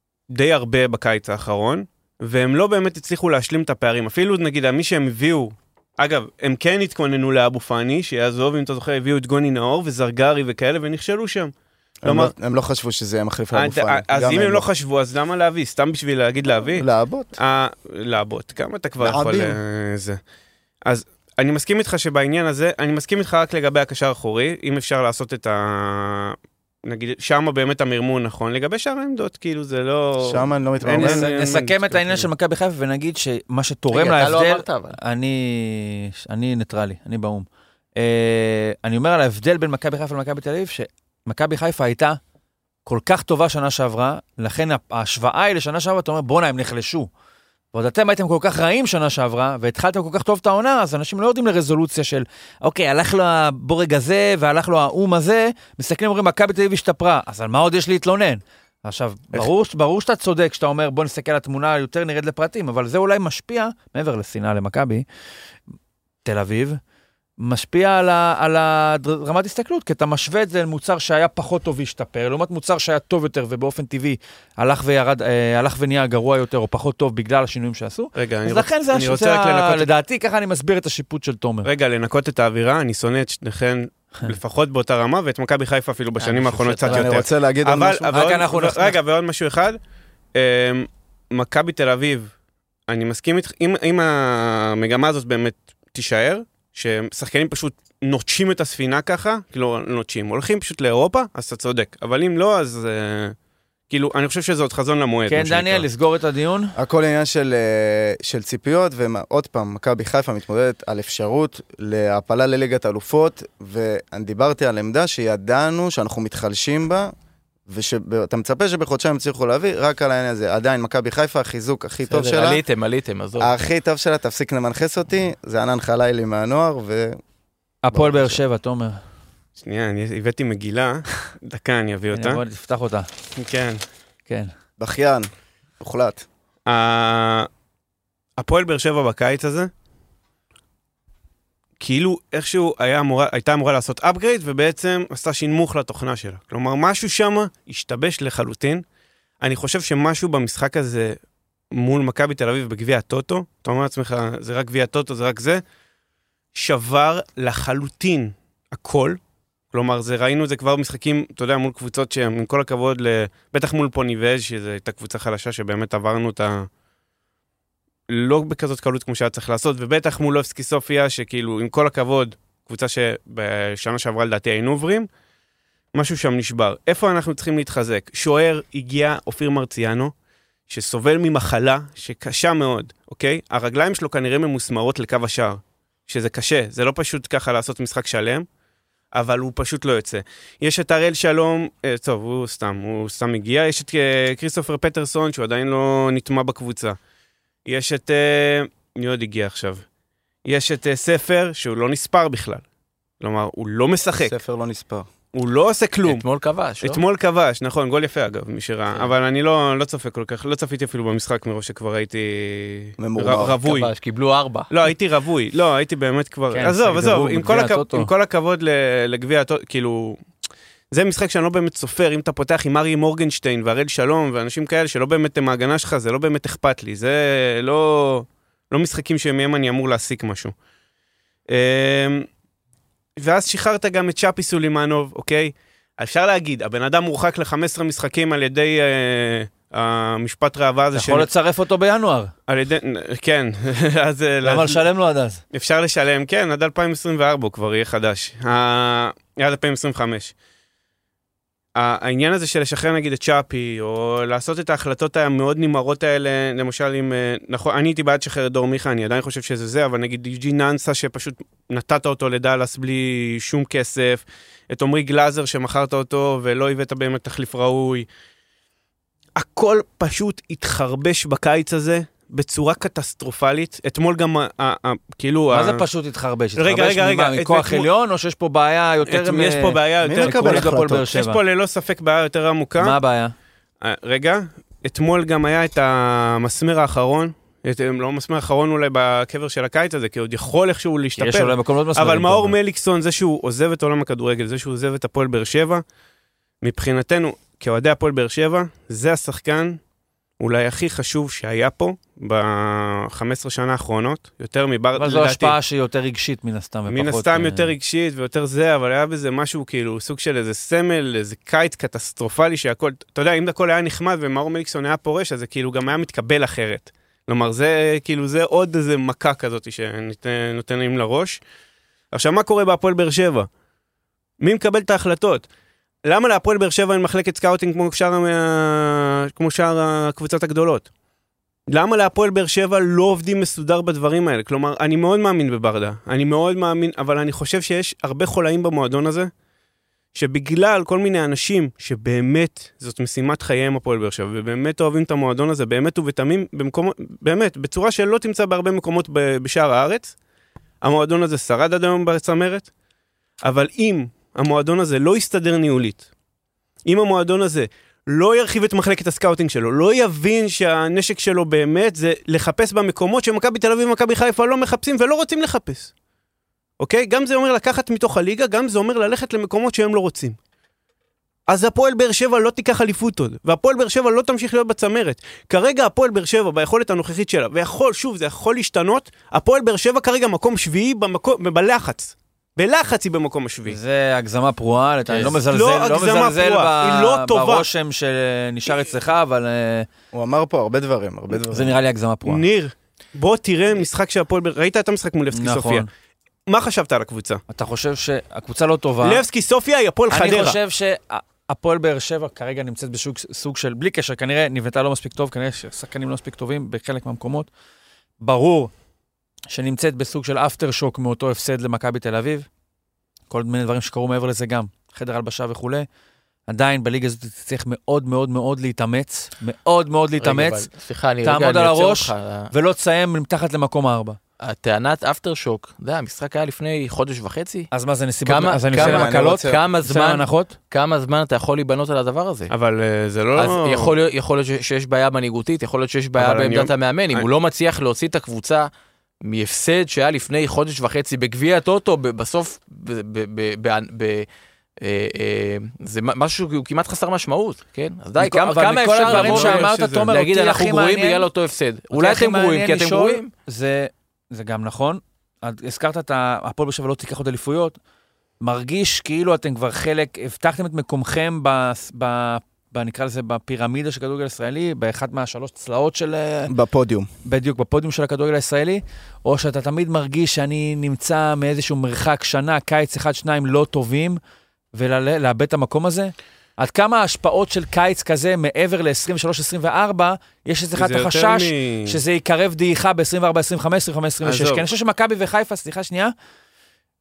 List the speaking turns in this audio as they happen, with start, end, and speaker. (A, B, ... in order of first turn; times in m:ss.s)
0:00.3-0:11.5 A
0:12.0-0:14.6 B
0:12.0-0:12.3 A
0:13.5-0:16.8 A
0:16.7-0:17.4 B
0:17.4-0:20.2 A
0:19.0-0:19.6 B
0:20.8-0:32.3 A
0:30.2-0:31.3 B
0:30.9-0:42.2 C
0:33.9-0:35.0 D
0:42.8-0:47.1 C
0:47.7-1:05.0 C
1:06.2-1:06.8 C
1:07.4-1:21.7 C
1:18.1-1:19.9 A
1:21.6-1:29.8 A
1:26.2-1:27.2 D
1:26.9-1:28.2 B
1:28.1-1:29.0 C
1:30.3-1:32.3 A
1:32.9-1:43.4 A
1:43.9-1:45.8 A
1:45.3-1:46.7 C
1:46.8-1:57.1 B
1:57.7-2:02.6 B
2:02.1-2:03.5 D
2:03.4-2:07.2 B
2:07.8-2:09.0 C
2:07.9-2:08.4 B
2:09.6-2:12.4 A
2:12.1-2:13.1 C
2:13.4-2:13.8 A
2:14.8-2:15.3 B
2:15.8-2:16.2 B
2:16.6-2:17.5 A
2:18.4-2:19.7 A
2:21.8-2:28.8 A
2:29.4-2:31.2 A
2:31.7-2:35.6 A
2:36.5-2:39.2 A
2:39.7-2:46.7 A
2:48.1-2:55.1 A
2:55.9-3:00.1 A
3:00.7-3:08.5 A
3:09.1-3:17.0 A
3:17.6-3:19.8 A
3:20.4-3:22.6 A
3:23.2-3:24.4 A
3:24.2-3:25.1 B
3:25.3-3:26.2 A
3:26.0-3:27.0 D
3:26.8-3:33.9 A
3:33.0-3:33.6 B
3:33.6-3:34.7 D
3:34.7-3:40.2 A
3:36.5-3:38.1 C
3:40.9-3:50.5 A
3:51.5-3:52.3 A
3:53.2-4:01.3 A
4:00.9-4:02.3 C
4:02.5-4:04.8 A
4:04.4-4:05.4 C
4:05.5-4:10.3 A
4:11.8-4:28.1 A
4:29.4-4:35.8 A
4:35.5-4:41.4 C
4:36.6-4:37.9 A
4:39.0-4:43.0 A
4:40.0-4:41.1 B
4:42.8-4:43.3 C
4:43.8-4:55.8 A
4:51.2-4:52.5 C
4:56.6-4:59.8 A
5:00.4-5:05.6 A
5:05.0-5:07.7 C
5:06.9-5:21.4 A
5:22.1-5:23.5 A
5:24.4-5:25.5 A
5:26.0-5:30.9 A
5:31.7-5:39.3 A
5:40.1-5:50.1 A
5:50.8-5:52.7 A
5:53.4-5:56.0 A
5:56.8-6:05.9 A
6:06.8-6:10.4 A
6:11.5-6:23.8 A
6:23.7-6:29.9 C
6:25.3-6:27.7 A
6:30.1-6:31.8 B
6:31.5-6:32.4 C
6:32.2-6:35.8 A
6:35.3-6:35.9 C
6:36.5-6:37.4 A
6:37.5-6:39.2 C
6:39.0-6:40.6 A
6:40.1-6:47.5 C
6:48.2-6:48.7 C
6:49.5-6:52.5 C
6:53.3-6:55.9 C
6:56.5-7:00.7 C
7:00.2-7:02.5 D
7:01.2-7:04.2 C
7:04.4-7:07.7 D
7:07.7-7:10.5 C
7:08.2-7:12.5 D
7:08.7-7:09.6 B
7:12.5-7:14.0 A
7:13.3-7:18.7 D
7:16.2-7:17.3 A
7:19.2-7:24.3 D
7:24.8-7:33.3 D
7:28.2-7:31.3 C
7:29.0-7:30.1 A
7:31.9-7:37.8 C
7:38.4-7:46.5 C
7:46.5-7:47.1 B
7:47.2-7:54.2 C
7:54.7-8:06.1 C
8:00.8-8:02.0 A
8:04.2-8:04.6 A